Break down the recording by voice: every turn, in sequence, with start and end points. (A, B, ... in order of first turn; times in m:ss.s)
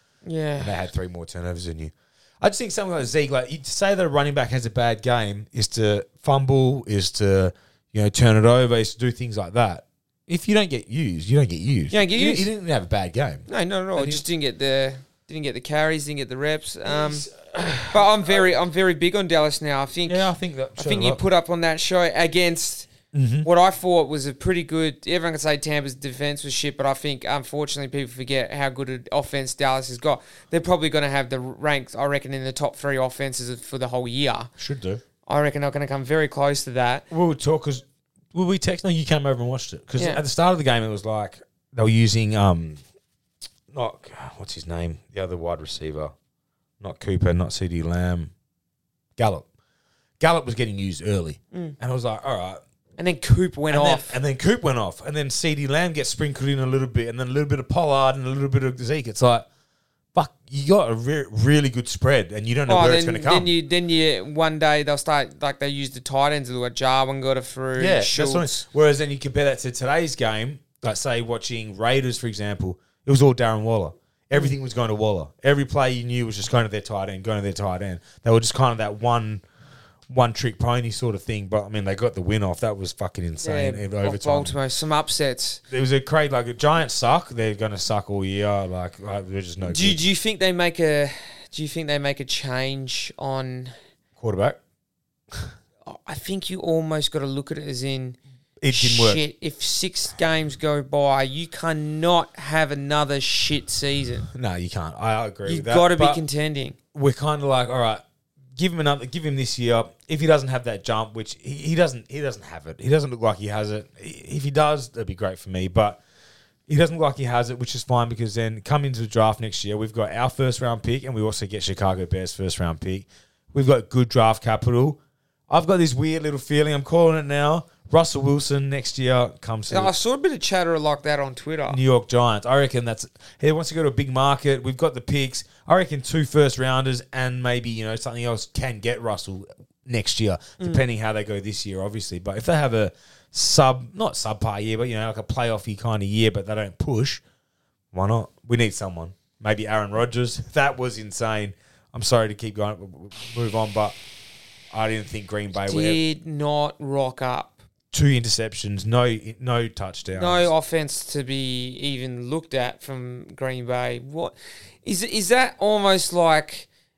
0:00.2-0:00.8 A
0:00.6-0:14.2 B
0:11.9-0:12.5 A
0:13.5-0:17.3 A
0:16.8-0:18.5 B
0:17.9-0:20.2 A
0:20.0-0:21.2 B
0:20.8-0:22.9 A
0:23.1-0:23.5 B
0:23.4-0:34.5 A
0:34.6-0:35.0 B
0:35.2-0:37.0 A
0:37.1-0:42.8 B
0:43.7-0:46.1 B
0:46.8-0:48.3 B
0:49.2-0:49.5 B
0:50.2-0:52.6 B
0:53.0-0:54.2 A
0:53.7-0:59.5 B
1:00.1-1:03.5 B
1:02.7-1:08.5 A
1:07.8-1:19.4 B
1:20.1-1:24.6 B
1:23.4-1:25.6 A
1:25.7-1:30.0 B
1:29.6-1:33.7 A
1:34.2-1:34.6 B
1:35.8-1:38.2 A
1:38.6-1:39.2 B
1:38.7-1:44.3 A
1:44.3-1:46.2 B
1:45.4-1:46.8 A
1:46.9-1:48.0 B
1:48.6-1:56.0 B
1:56.7-2:09.9 B
2:09.7-2:11.8 A
2:11.7-2:27.2 B
2:27.9-2:34.0 B
2:34.7-2:36.0 B
2:35.7-2:37.6 A
2:37.9-2:40.5 B
2:40.1-2:46.7 A